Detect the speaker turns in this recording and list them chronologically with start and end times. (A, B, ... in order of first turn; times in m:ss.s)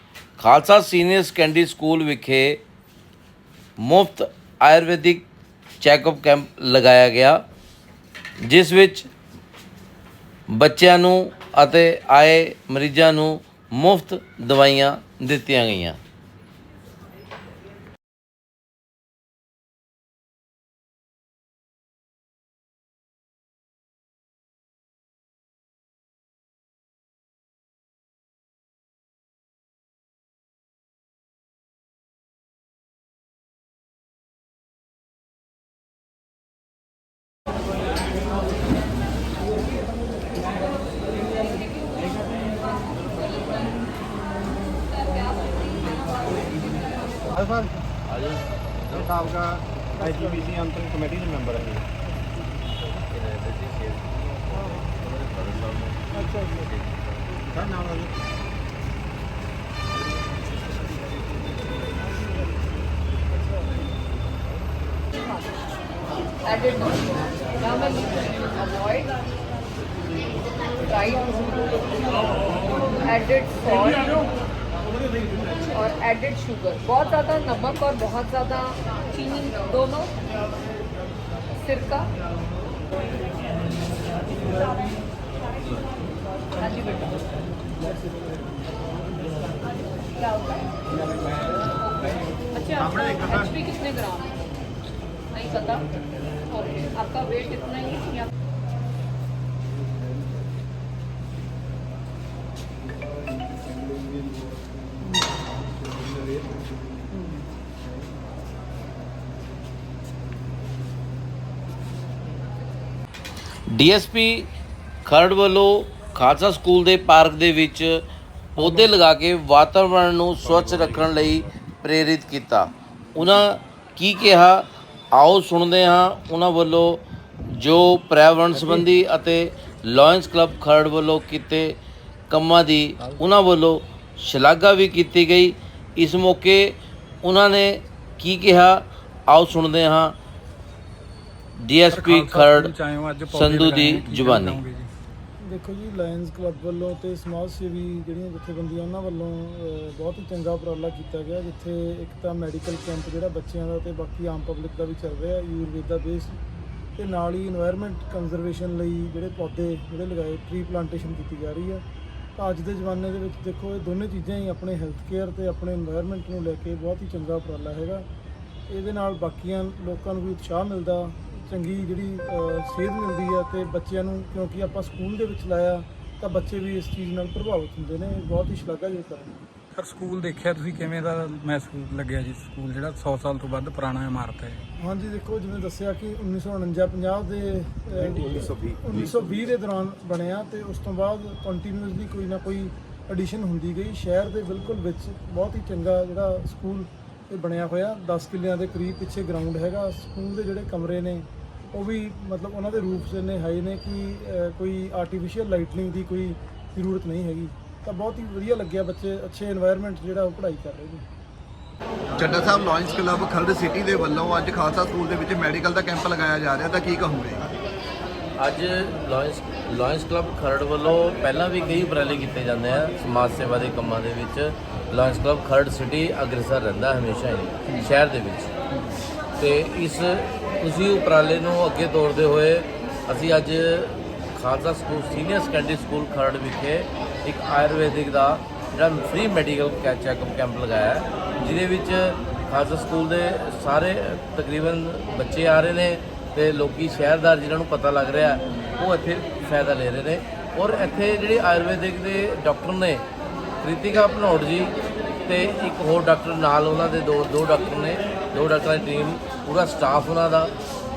0:00.4-0:02.6 A
0:03.8-0:05.2 A
0:05.8-0:07.4 A
0:08.4-0:09.1 A
0:10.5-0:16.0 A
0:47.3-0:47.7 B
0:48.1-0:49.3 A
0:48.9-0:51.8 B
0:50.0-0:50.5 C
0:53.1-0:56.0 A
0:56.1-0:56.6 C
0:57.5-0:58.1 B
1:05.2-1:05.6 D
1:06.4-1:09.3 D
1:10.8-1:14.2 D
1:15.7-1:20.2 D
1:21.6-1:22.1 D
1:26.6-1:27.2 D
1:31.8-1:34.3 D
1:35.3-1:35.9 D
1:36.5-1:38.3 D
1:53.7-1:54.5 A
1:55.0-1:58.0 A
1:58.6-2:11.8 A
2:12.3-2:20.2 A
2:21.6-2:22.7 A
2:21.9-2:24.9 E
2:23.3-2:24.6 A
2:25.4-2:36.4 C
2:37.0-2:41.8 C
2:42.4-2:48.1 C
2:48.7-2:59.3 C
2:59.8-3:04.6 E
3:04.8-3:31.0 C
3:08.7-3:09.2 F
3:32.2-3:37.4 F
3:38.4-3:48.5 A
3:49.4-4:13.0 A
4:13.6-4:14.7 A
4:15.2-4:20.5 A